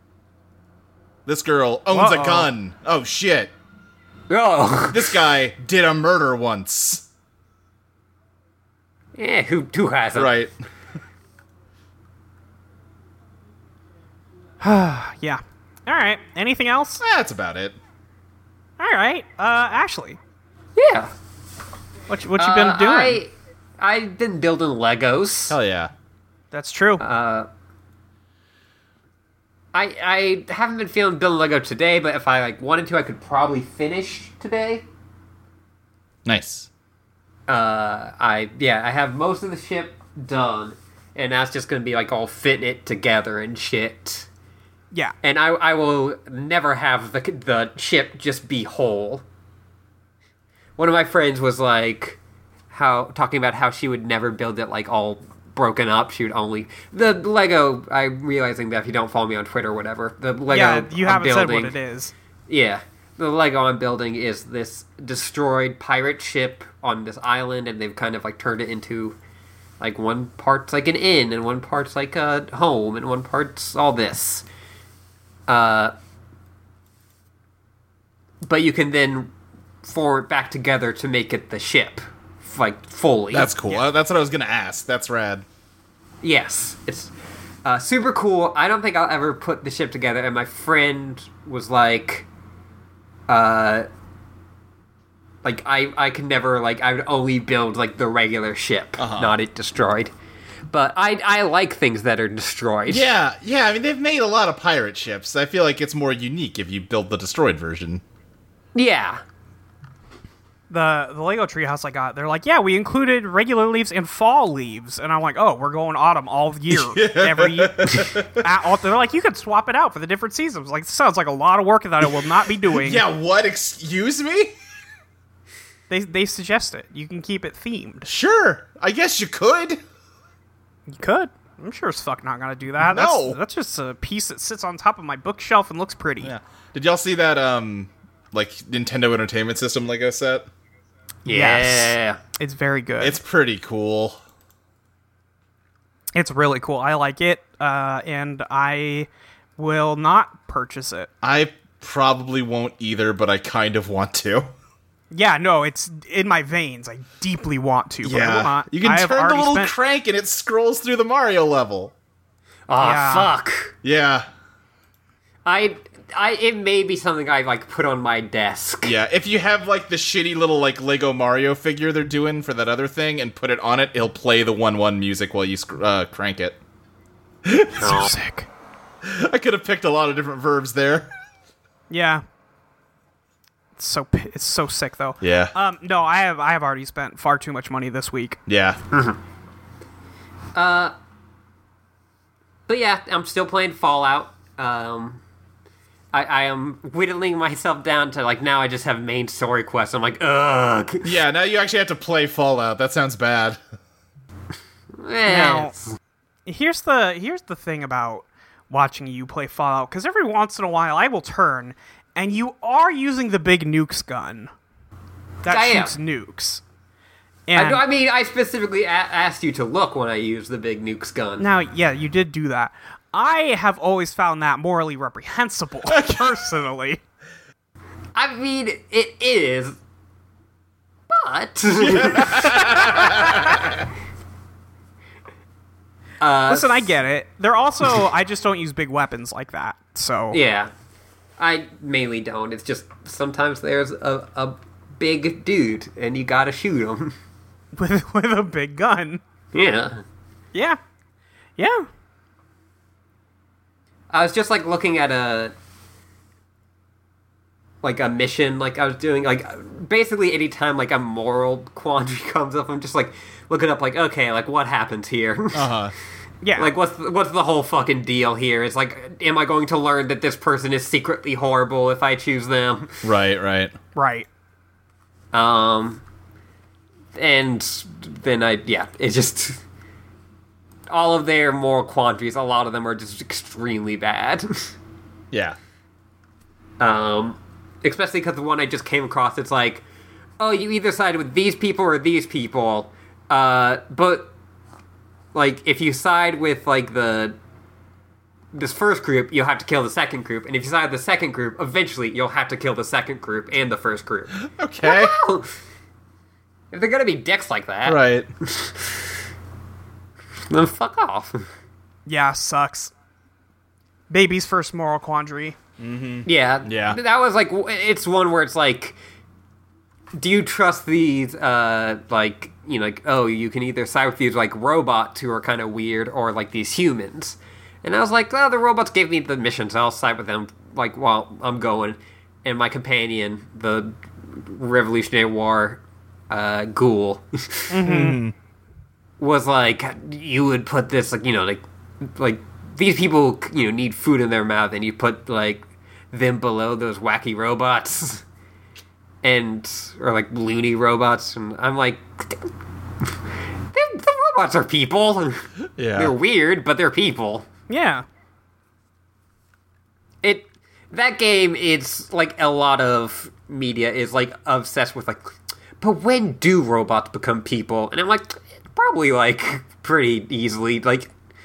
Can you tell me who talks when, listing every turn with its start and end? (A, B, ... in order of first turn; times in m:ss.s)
0:01.3-0:03.5 A
0:01.9-0:02.5 B
0:04.3-0:05.2 C
0:04.9-0:07.1 A
0:09.2-0:10.3 C
0:10.2-0:10.5 A
0:14.6-0:17.0 B
0:17.0-0:17.8 A
0:18.8-0:20.2 B
0:20.8-0:21.1 C
0:22.1-0:23.2 B
0:22.4-0:25.6 C
0:25.5-0:25.9 A
0:26.5-0:27.0 B
0:27.0-0:27.5 C
0:29.7-0:34.9 C
0:36.3-0:36.7 A
0:37.5-0:44.3 C
0:45.2-0:49.2 C
0:50.8-0:52.2 C
0:52.7-1:01.8 C
1:00.5-1:02.1 B
1:02.5-1:09.2 C
1:09.8-1:14.5 C
1:15.5-1:15.9 C
1:18.4-1:19.3 C
1:19.8-1:23.5 C
1:23.3-1:25.4 A
1:26.2-1:27.1 C
1:27.6-1:32.3 C
1:33.3-1:33.9 C
1:35.4-1:40.1 C
1:39.0-1:39.4 A
1:40.7-1:43.1 C
1:42.9-1:48.0 A
1:48.8-1:49.2 C
1:50.7-2:03.0 B
1:56.7-1:58.5 A
2:02.2-2:04.6 A
2:05.9-2:08.1 B
2:08.1-2:09.8 A
2:10.9-2:16.3 B
2:12.8-2:13.4 A
2:16.2-2:20.5 A
2:21.2-2:22.2 C
2:21.3-2:23.2 B
2:23.0-2:24.2 A
2:26.2-2:31.1 B
2:31.2-2:34.5 A
2:35.1-2:39.7 B
2:38.0-2:41.9 A
2:42.7-2:43.7 C
2:42.8-2:43.3 B
2:43.8-2:44.3 A
2:45.4-2:49.0 C
2:48.8-2:56.6 A
2:57.4-2:58.0 A
2:57.8-2:58.5 B
2:57.8-2:58.1 C
2:59.0-3:01.1 A
3:01.9-3:02.2 B
3:03.8-3:08.4 B
3:05.2-3:05.5 A
3:08.5-3:08.8 A
3:08.9-3:09.2 C
3:10.6-3:10.9 C
3:12.7-3:15.2 C
3:16.1-3:21.2 C
3:21.0-3:23.6 A
3:25.0-3:26.0 C
3:25.3-3:25.7 B
3:26.5-3:34.5 B
3:35.4-3:36.6 B
3:35.5-3:35.9 C
3:37.5-3:37.8 B
3:37.6-3:41.4 C
3:41.4-3:47.0 B
3:45.9-3:46.4 A
3:48.2-3:49.8 C
3:51.1-3:53.8 C
3:51.8-3:53.8 A
3:56.2-3:56.9 C
3:56.5-4:00.4 B
4:00.3-4:00.7 C
4:01.4-4:07.2 C
4:07.8-4:09.2 B
4:09.5-4:10.0 C
4:10.5-4:10.8 B
4:11.6-4:11.9 B
4:14.1-4:15.5 C
4:17.8-4:25.8 C
4:25.5-4:25.9 A
4:26.4-4:26.7 B
4:26.6-4:33.0 C
4:33.0-4:33.7 A
4:34.0-4:34.3 B
4:35.3-4:36.0 C
4:37.2-4:39.6 C
4:40.9-4:44.8 C
4:45.3-4:45.6 A
4:46.8-4:49.8 C
4:50.4-4:54.3 C
4:55.3-4:57.4 C
4:58.5-5:05.5 C
5:04.4-5:05.1 A
5:06.7-5:09.1 C
5:07.9-5:08.3 A
5:10.5-5:11.5 C
5:12.1-5:12.9 B
5:14.1-5:15.6 B
5:15.8-5:17.0 A
5:16.3-5:19.0 C
5:20.2-5:37.8 C
5:37.7-5:38.2 B
5:37.8-5:38.3 A
5:39.2-5:48.2 C
5:49.2-5:52.5 C
5:53.0-5:57.5 C
5:55.8-5:56.2 A
5:57.7-5:58.1 B
6:00.2-6:11.1 C